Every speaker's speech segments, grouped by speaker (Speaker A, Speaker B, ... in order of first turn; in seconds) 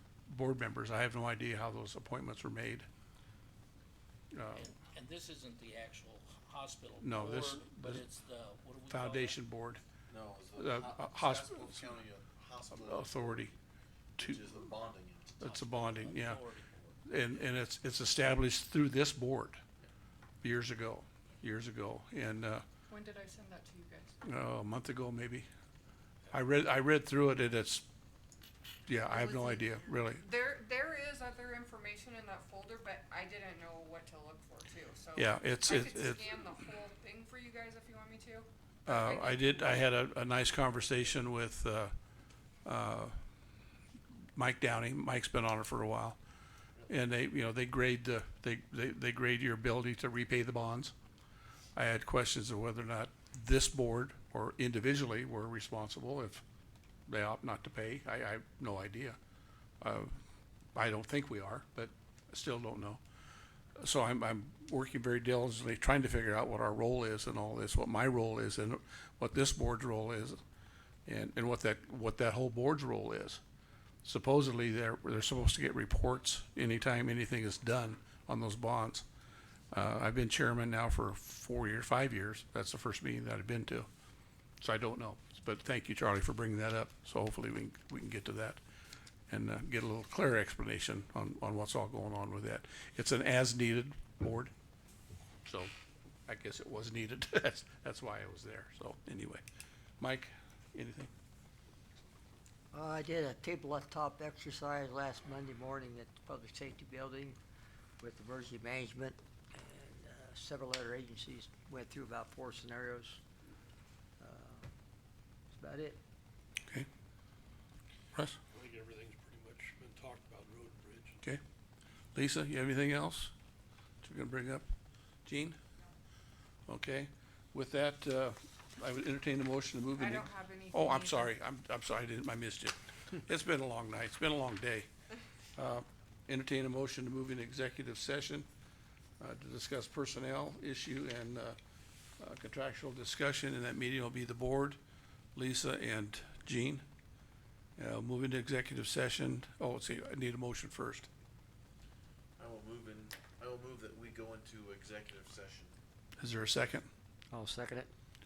Speaker A: 0.3-2.9, 4.3-4.7, 7.0-8.1, 8.9-9.8, 10.6-11.9, 12.8-13.5, 14.2-14.4, 15.4-16.4, 17.1-19.6, 20.4-22.6, 24.2-25.5, 26.3-27.9, 28.9-30.2, 35.2-36.3, 38.9-41.9, 42.6-43.2, 44.4-46.2, 46.9-50.9, 51.8-56.4, 57.1-59.2, 59.8-60.2, 60.8-63.0, 63.8-70.4, 71.1-73.4, 74.0-79.1, 79.7-83.9, 84.6-88.6, 89.3-94.5, 95.5-95.7, 96.3-99.4, 100.0-101.1, 118.1-118.4, 122.2-123.3, 124.0-124.7, 125.2-125.6, 126.7-134.9, 135.6-138.5, 139.2-141.6, 142.2-144.8, 145.3-146.8, 147.8-151.1, 156.2-156.9
Speaker B: 4.5-9.4, 15.4-17.0
Speaker C: 10.1-13.4, 14.2-15.6, 152.4-155.8
Speaker D: 22.9-24.2, 29.1-39.9, 130.0-131.3
Speaker E: 102.7-107.4, 108.0-113.2, 114.2-114.7, 115.5-116.0, 157.3-157.9
Speaker F: 118.5-121.2